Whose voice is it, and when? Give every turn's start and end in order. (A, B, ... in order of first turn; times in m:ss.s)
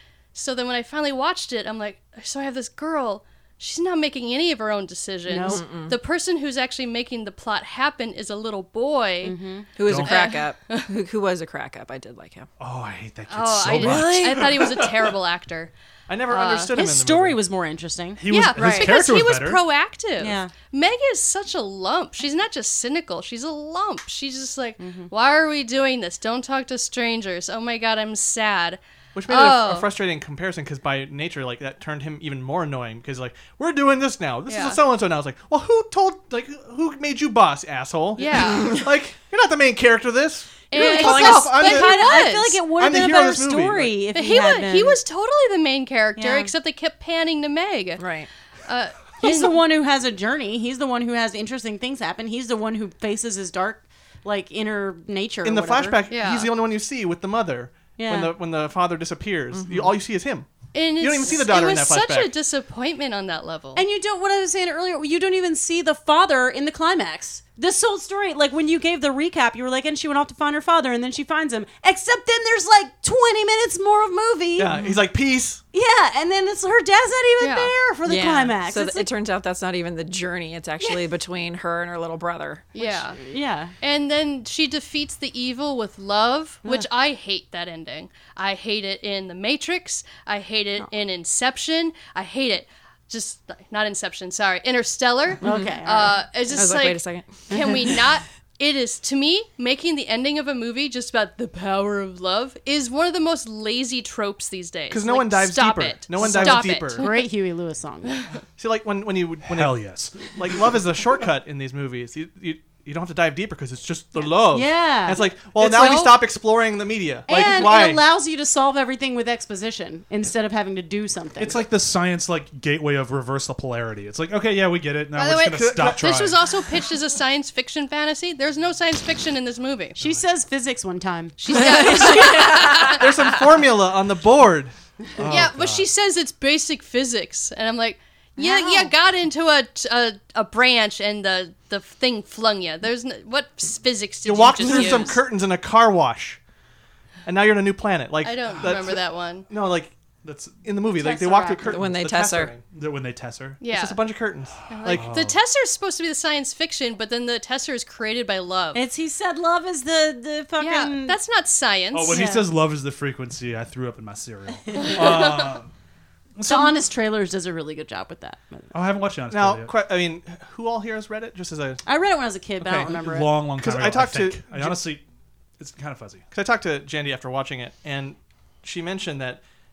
0:00.3-0:09.4 A
0:05.3-0:05.6 B
0:05.4-0:06.0 C
0:09.2-0:09.7 B
0:09.8-0:12.5 C
0:09.8-0:10.2 D
0:10.0-0:10.9 A
0:12.6-0:15.1 D
0:13.3-0:15.7 A
0:13.7-0:14.6 C
0:16.1-0:17.4 E
0:16.3-0:16.7 A
0:16.7-0:18.9 B
0:18.2-0:19.6 D
0:18.3-0:29.9 A
0:20.2-0:20.5 B
0:24.8-0:25.1 B
0:29.1-0:44.0 E
0:34.5-0:34.8 A
0:38.2-0:38.8 A
0:40.7-0:42.6 A
0:40.7-0:45.0 B
0:44.1-0:48.0 A
0:46.2-0:46.5 B
0:48.0-0:48.3 C
0:48.6-0:49.6 A
0:49.2-0:56.0 B
0:55.4-1:00.5 E
0:56.1-0:56.5 A
0:58.0-0:58.3 B
0:59.5-0:59.9 C
1:00.7-1:03.8 A
1:01.0-1:02.3 E
1:03.8-1:14.7 B
1:14.6-1:15.6 E
1:14.7-1:15.0 C
1:15.7-1:19.1 B
1:17.4-1:17.7 A
1:18.0-1:22.7 C
1:22.7-1:23.2 A
1:22.8-1:23.7 B
1:23.8-1:47.2 A
1:35.4-1:36.2 B
1:35.4-1:35.8 C
1:36.5-1:38.0 C
1:37.5-1:37.8 B
1:44.9-1:47.0 E
1:46.2-1:48.2 B
1:48.6-1:58.0 E
1:49.5-1:50.4 D
1:54.5-1:56.0 B
1:55.6-1:56.2 A
1:57.3-2:01.6 B
2:01.4-2:06.4 D
2:05.1-2:10.0 A
2:05.5-2:06.0 E
2:10.0-2:12.1 B
2:11.4-2:13.3 A
2:11.5-2:13.0 C
2:12.3-2:14.7 E
2:15.2-2:15.9 D
2:15.2-2:25.2 A
2:18.4-2:18.9 B
2:24.2-2:26.4 E
2:27.2-2:29.9 E
2:28.2-2:29.5 A
2:30.2-2:30.6 D
2:30.6-2:32.6 E
2:31.0-2:31.8 B
2:31.7-2:32.5 C
2:32.0-2:33.6 D
2:33.6-2:34.0 A
2:33.7-2:35.1 E
2:34.7-2:38.8 A
2:34.9-2:35.4 D
2:38.7-2:41.2 B
2:40.6-2:42.3 A
2:41.9-2:45.7 D
2:42.1-2:42.4 B
2:44.7-2:45.3 B
2:44.8-2:45.4 A
2:46.4-2:46.8 D
2:46.4-2:48.7 B
2:48.7-2:49.7 D
2:49.3-2:51.8 E
2:51.8-2:53.4 B
2:52.6-2:52.9 E
2:52.8-2:55.0 D
2:53.5-2:54.8 E
2:55.6-2:56.2 D
2:56.3-2:59.4 E